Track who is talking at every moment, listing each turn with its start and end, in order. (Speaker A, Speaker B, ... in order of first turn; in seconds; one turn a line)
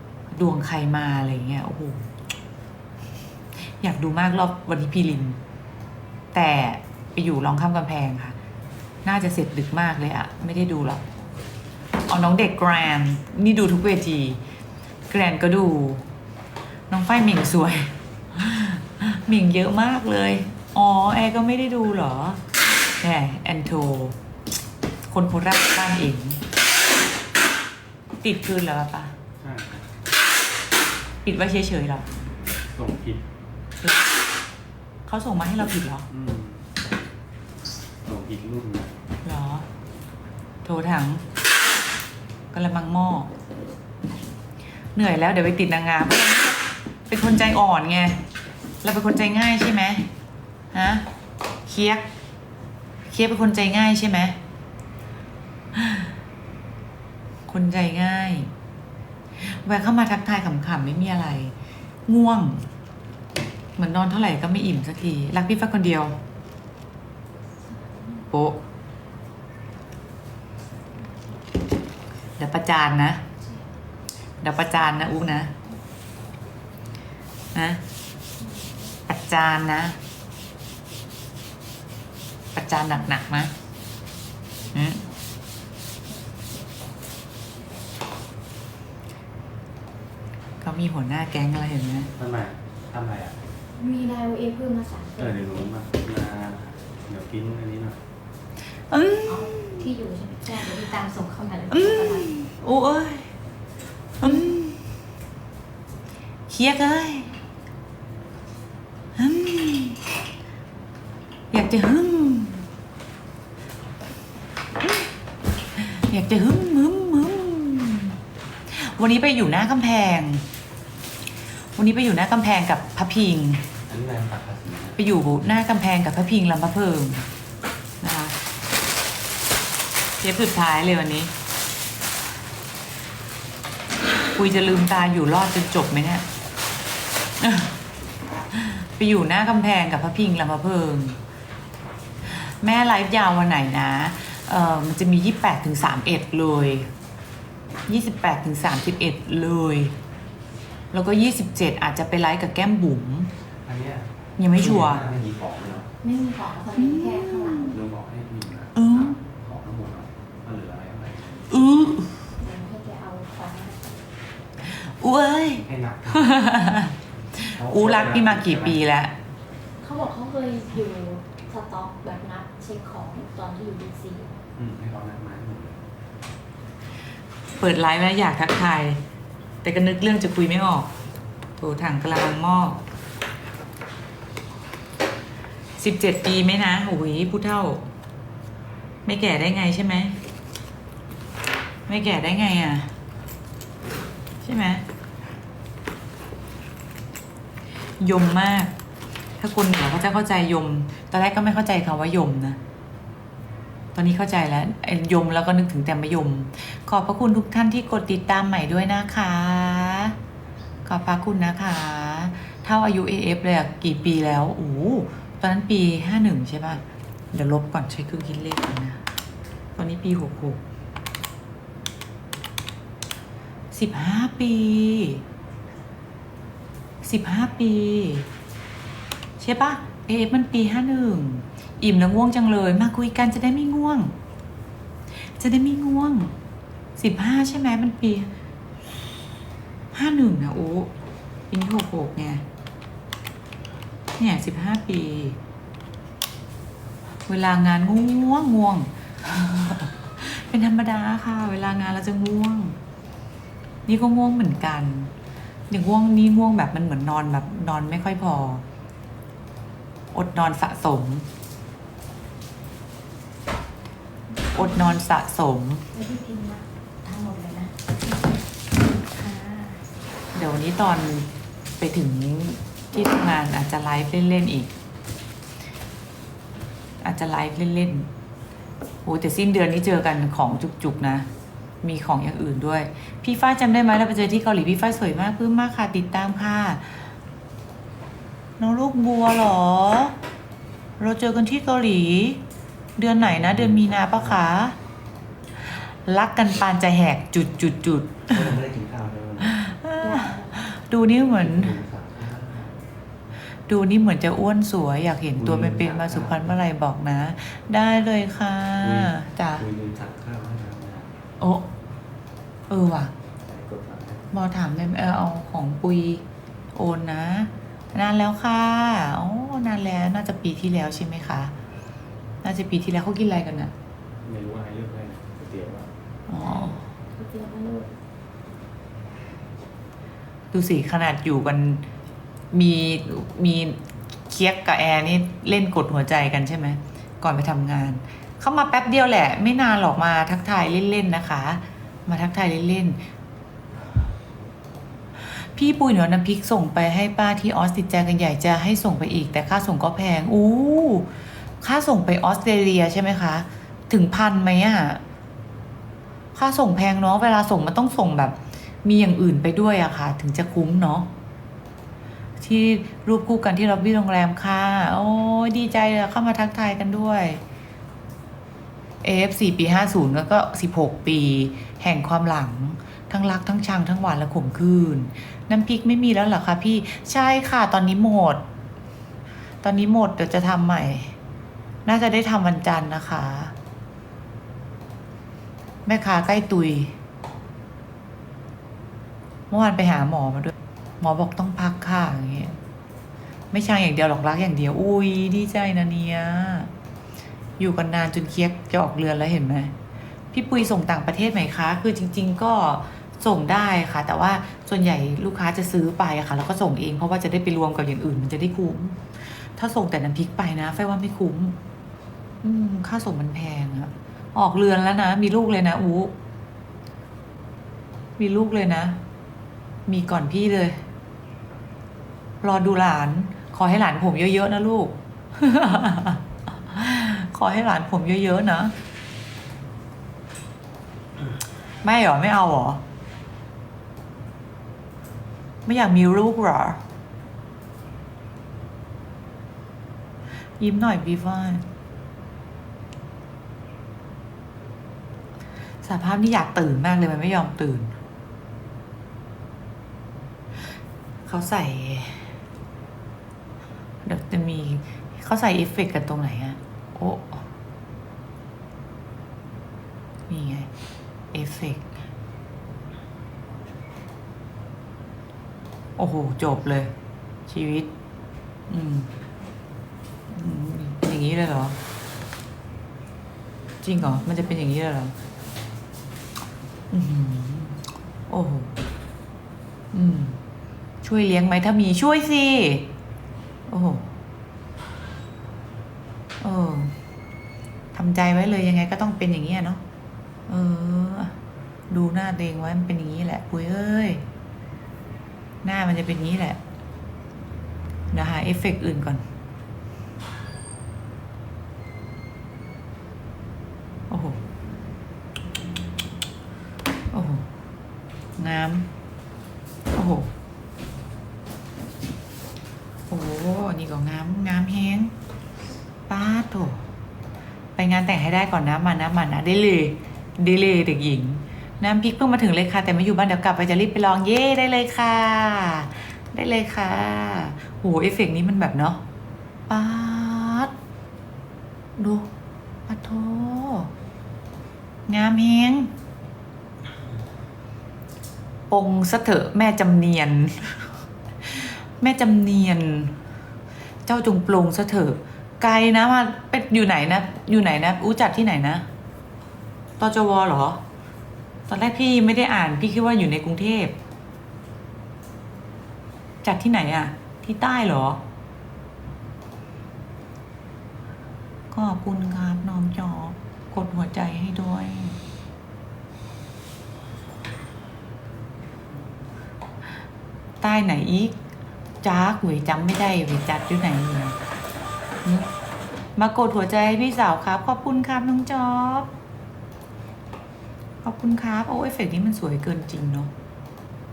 Speaker A: 0.3-2.1
Speaker A: 3.8-5.4
Speaker A: 6.3-8.3
Speaker A: 9.0-11.0
Speaker A: 12.1-14.4
Speaker A: 15.1-16.1
Speaker A: 16.9-22.4
Speaker A: 23.0-24.2
Speaker A: 25.1-26.4
Speaker A: 28.2-29.2
Speaker B: 29.4-29.9
Speaker A: 31.2-32.1
Speaker B: 32.7-33.2
Speaker A: 33.8-34.1
Speaker A: 35.1-36.1
Speaker B: 36.1-36.6
Speaker B: 38.0-39.0
Speaker A: 39.2-39.7
Speaker A: 40.6-41.2
Speaker A: 42.5-43.3
Speaker A: 44.9-48.2
Speaker A: 48.8-50.1
Speaker A: 50.7-51.1
Speaker A: 51.6-52.1
Speaker A: 53.1-54.4
Speaker A: 55.7-56.1
Speaker A: 57.5-58.5
Speaker A: 59.4-61.5
Speaker A: 62.0-62.6
Speaker A: 63.8-66.2
Speaker C: 67.6-68.3
Speaker A: 68.3-68.6
Speaker A: 72.4-73.2
Speaker A: 74.4-75.5
Speaker C: 74.9-75.5
Speaker A: 77.5-77.8
Speaker C: 78.4-79.0
Speaker A: 79.1-80.0
Speaker A: 82.5-83.5
Speaker A: 84.7-85.0
Speaker C: 84.7-85.1
Speaker C: 86.1-86.6
Speaker A: 90.6-92.1
Speaker B: 92.2-93.4
Speaker C: 93.8-95.3
Speaker B: 95.2-98.0
Speaker A: 98.9-99.9
Speaker C: 99.2-102.4
Speaker A: 101.7-103.3
Speaker A: 104.2-104.8
Speaker A: 106.5-107.3
Speaker A: 109.2-110.0
Speaker A: 111.5-112.7
Speaker A: 114.8-115.1
Speaker A: 115.7-118.2
Speaker A: 118.7-120.5
Speaker A: 121.8-123.7
Speaker B: 123.9-125.0
Speaker A: 125.0-127.3
Speaker A: 128.0-128.3
Speaker A: 130.2-131.3
Speaker A: 134.3-136.2
Speaker A: 137.4-137.8
Speaker A: 138.5-141.2
Speaker A: 142.2-146.9
Speaker A: 147.9-149.9
Speaker A: 150.9-153.3
Speaker B: 153.6-155.9
Speaker A: 154.4-155.0
Speaker C: 156.0-157.7
Speaker A: 156.8-157.8
Speaker B: 157.6-161.7
Speaker A: 158.7-159.2
Speaker A: 161.5-162.3
Speaker C: 162.4-163.9
Speaker A: 164.6-169.1
Speaker B: 165.6-166.3
Speaker B: 167.4-168.8
Speaker C: 169.8-174.4
Speaker B: 174.6-175.8
Speaker A: 177.6-179.0
Speaker A: 179.6-180.9
Speaker A: 181.6-182.8
Speaker A: 185.8-187.9
Speaker A: 189.0-190.2
Speaker A: 191.9-192.9
Speaker A: 194.4-194.8
Speaker A: 198.0-198.7
Speaker A: 199.4-202.6
Speaker A: 203.9-210.2
Speaker A: 210.8-219.0
Speaker A: 219.8-220.6
Speaker A: 223.7-225.2
Speaker A: 227.0-228.3
Speaker A: 229.4-234.1
Speaker A: 235.4-236.3
Speaker A: 236.9-238.3
Speaker A: 239.9-240.9
Speaker A: 241.5-242.4
Speaker A: 244.2-245.4
Speaker A: 247.2-252.8
Speaker A: 253.8-255.1
Speaker A: 255.7-258.6
Speaker A: 260.1-261.3
Speaker C: 264.4-265.0
Speaker A: 264.5-265.8
Speaker C: 265.9-267.9
Speaker C: 268.9-269.9
Speaker A: 270.3-274.7
Speaker A: 277.0-278.1
Speaker A: 279.0-281.3
Speaker A: 281.8-287.1
Speaker A: 288.6-290.1
Speaker A: 291.0-292.4
Speaker A: 293.0-294.8
Speaker B: 293.2-294.4
Speaker A: 295.7-298.6
Speaker B: 298.3-299.6
Speaker A: 299.4-301.8
Speaker C: 300.0-300.6
Speaker B: 301.3-302.8
Speaker A: 303.7-309.6
Speaker B: 305.4-306.6
Speaker B: 308.8-311.1
Speaker A: 311.4-311.7
Speaker A: 312.7-313.1
Speaker B: 313.4-314.3
Speaker A: 314.3-321.5
Speaker A: 322.4-323.7
Speaker B: 324.2-325.9
Speaker A: 326.3-326.8
Speaker C: 326.3-327.9
Speaker A: 330.5-331.9
Speaker A: 332.5-343.0
Speaker A: 345.2-351.1
Speaker A: 351.6-355.0
Speaker A: 356.3-361.1
Speaker A: 362.4-367.4
Speaker A: 369.0-378.5
Speaker A: 379.6-381.1
Speaker A: 381.8-383.5
Speaker A: 385.9-386.9
Speaker A: 389.5-392.6
Speaker A: 393.5-396.7
Speaker A: 397.6-399.7
Speaker A: 400.3-411.6
Speaker A: 412.4-416.1
Speaker A: 418.2-419.0
Speaker A: 419.9-420.8
Speaker A: 422.4-428.7
Speaker A: 431.8-432.8
Speaker A: 435.6-436.8
Speaker A: 440.6-441.6
Speaker A: 445.8-447.9
Speaker A: 451.2-452.3
Speaker A: 454.0-457.4
Speaker A: 460.3-460.7
Speaker A: 461.3-461.9
Speaker A: 466.0-466.9
Speaker A: 467.5-467.9
Speaker A: 468.7-469.1
Speaker A: 470.3-471.8
Speaker A: 473.8-475.1
Speaker A: 476.9-478.7
Speaker A: 479.9-480.4
Speaker A: 481.0-482.9
Speaker A: 483.7-484.1
Speaker A: 486.4-486.9
Speaker A: 487.9-489.8
Speaker A: 490.5-491.4
Speaker A: 491.9-494.2
Speaker A: 495.6-496.6
Speaker A: 498.1-499.2
Speaker A: 504.1-504.4
Speaker A: 507.1-507.5
Speaker A: 508.4-508.9
Speaker A: 509.9-510.3
Speaker A: 513.1-515.1
Speaker A: 516.1-516.8
Speaker A: 517.8-529.0
Speaker A: 529.7-530.7
Speaker A: 532.0-532.3
Speaker A: 532.9-533.9
Speaker A: 535.1-535.9
Speaker A: 538.7-543.2
Speaker A: 544.0-548.9
Speaker A: 550.0-550.8
Speaker A: 551.7-554.0
Speaker A: 556.4-558.2
Speaker A: 561.7-565.2
Speaker A: 570.6-571.4
Speaker A: 572.0-574.4
Speaker A: 575.2-575.5
Speaker A: 576.1-579.1
Speaker A: 581.0-583.3